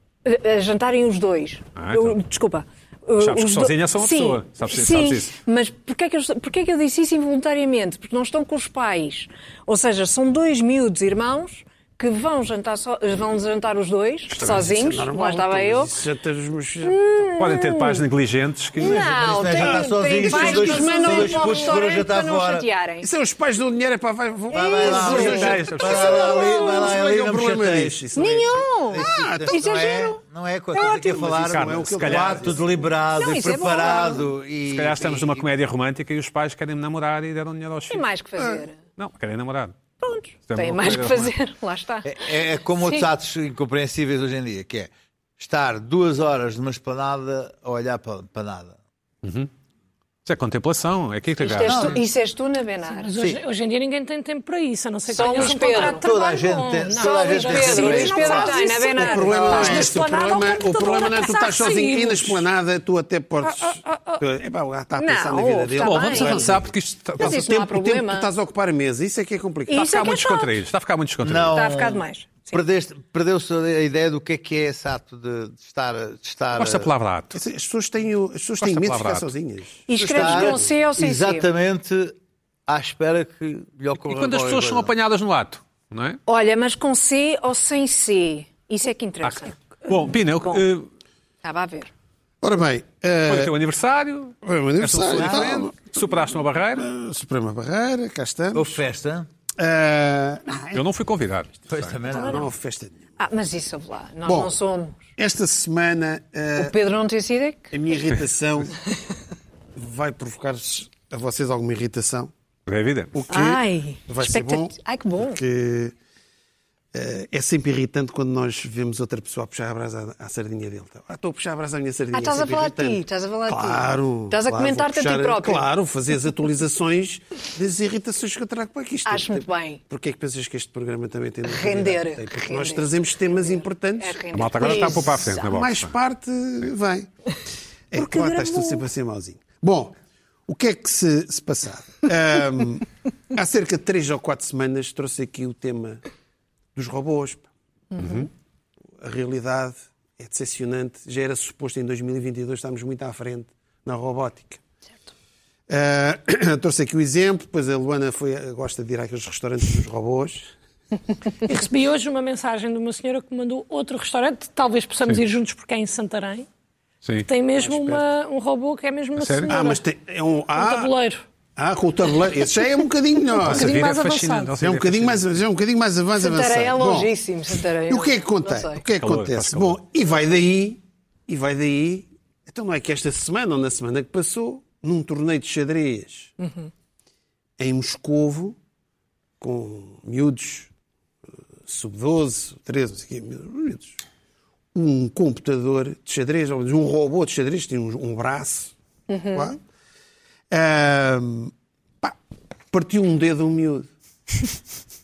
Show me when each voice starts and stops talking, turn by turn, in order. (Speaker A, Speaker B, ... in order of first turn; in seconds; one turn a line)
Speaker A: 0.2-15.9
Speaker B: 1.8-2.2
Speaker B: 3.2-5.4
Speaker B: 14.3-14.7
Speaker C: 14.4-17.0
Speaker A: 16.8-18.0
Speaker B: 17.4-19.1
Speaker A: 18.8-23.1
Speaker D: 18.8-22.7
Speaker C: 19.5-21.8
Speaker C: 23.0-29.6
Speaker A: 24.5-27.0
Speaker D: 24.5-35.5
Speaker B: 24.9-26.1
Speaker A: 28.1-30.2
Speaker C: 30.7-32.6
Speaker B: 31.4-32.6
Speaker A: 32.9-34.3
Speaker B: 34.7-38.0
Speaker A: 37.9-38.8
Speaker B: 39.0-39.8
Speaker A: 40.0-43.1
Speaker B: 40.5-41.3
Speaker D: 42.0-48.8
Speaker B: 49.2-49.5
Speaker B: 50.2-52.0
Speaker A: 51.4-53.1
Speaker D: 51.6-52.0
Speaker E: 52.9-62.4
Speaker D: 53.1-53.4
Speaker A: 55.1-56.1
Speaker D: 55.2-58.7
Speaker A: 56.9-60.0
Speaker C: 58.9-66.7
Speaker E: 63.4-64.2
Speaker A: 64.9-66.6
Speaker B: 65.8-67.5
Speaker A: 67.2-68.3
Speaker C: 67.2-70.2
Speaker A: 69.7-70.6
Speaker B: 69.7-71.6
Speaker D: 71.2-76.9
Speaker A: 71.5-72.6
Speaker B: 76.5-77.4
Speaker C: 77.3-80.7
Speaker B: 78.6-79.3
Speaker A: 79.9-81.5
Speaker D: 80.0-82.2
Speaker D: 82.7-84.9
Speaker B: 84.0-86.2
Speaker A: 86.2-89.7
Speaker B: 89.2-90.9
Speaker A: 91.4-91.9
Speaker C: 92.4-93.5
Speaker B: 93.3-96.9
Speaker C: 94.4-95.8
Speaker D: 95.2-95.4
Speaker C: 96.8-98.8
Speaker D: 98.5-99.3
Speaker C: 99.6-100.8
Speaker B: 100.7-102.0
Speaker D: 101.7-102.5
Speaker A: 102.1-102.5
Speaker C: 102.1-103.0
Speaker A: 103.2-105.1
Speaker C: 104.2-104.5
Speaker C: 105.2-106.7
Speaker A: 106.5-107.7
Speaker C: 107.7-108.8
Speaker C: 109.8-112.3
Speaker B: 112.7-113.2
Speaker C: 113.1-115.9
Speaker A: 113.3-115.4
Speaker C: 116.9-137.1
Speaker A: 122.1-125.6
Speaker A: 129.0-129.8
Speaker A: 131.4-135.4
Speaker B: 134.3-135.9
Speaker C: 137.9-139.9
Speaker A: 137.9-138.8
Speaker C: 140.5-146.0
Speaker C: 146.7-147.5
Speaker A: 147.9-148.3
Speaker B: 148.0-148.3
Speaker C: 149.0-154.6
Speaker C: 155.7-160.5
Speaker E: 161.4-166.5
Speaker E: 167.2-169.8
Speaker C: 167.6-168.0
Speaker B: 169.2-169.5
Speaker C: 169.5-170.9
Speaker E: 170.5-171.2
Speaker C: 171.6-173.8
Speaker E: 173.4-174.5
Speaker B: 173.4-175.4
Speaker C: 174.6-177.1
Speaker A: 176.2-178.8
Speaker C: 177.9-186.3
Speaker B: 178.9-179.8
Speaker A: 186.4-186.7
Speaker C: 187.6-188.6
Speaker C: 189.4-190.7
Speaker C: 191.7-194.0
Speaker C: 194.7-198.7
Speaker A: 199.1-199.5
Speaker C: 199.3-199.6
Speaker C: 200.5-202.2
Speaker C: 202.7-203.9